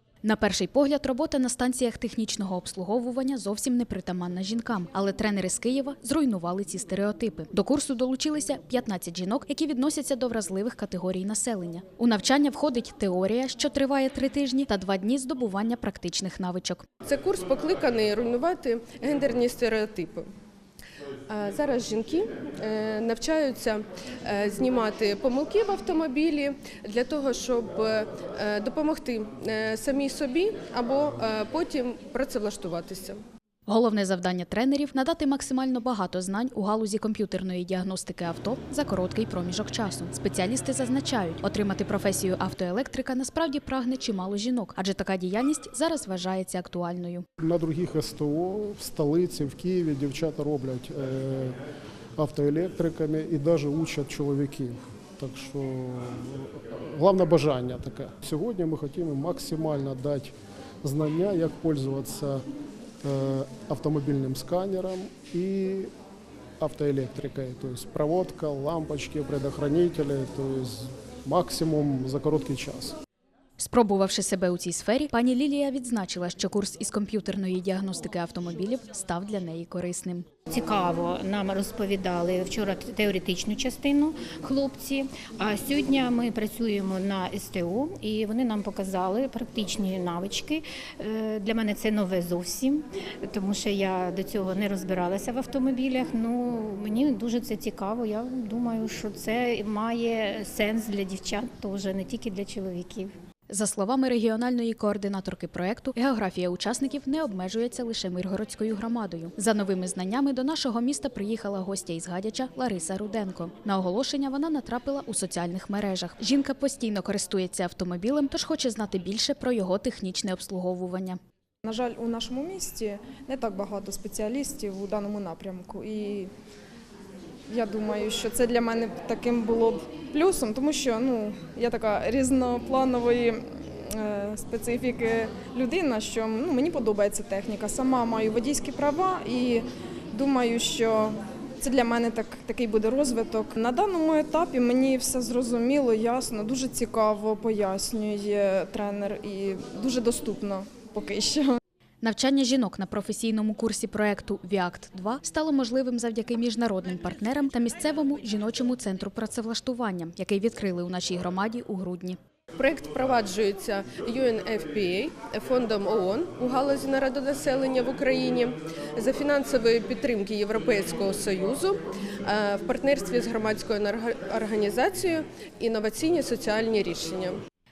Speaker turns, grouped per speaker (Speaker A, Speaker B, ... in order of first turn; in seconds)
Speaker A: 0.2-16.8, 33.7-47.2, 73.6-80.2, 103.5-121.2, 152.0-162.2
Speaker B: 17.1-20.2, 21.3-33.2, 162.6-177.4
Speaker C: 47.4-51.6, 52.2-62.4, 63.0-65.9, 66.6-73.0
Speaker D: 80.5-103.1
Speaker E: 121.6-126.3, 127.5-151.6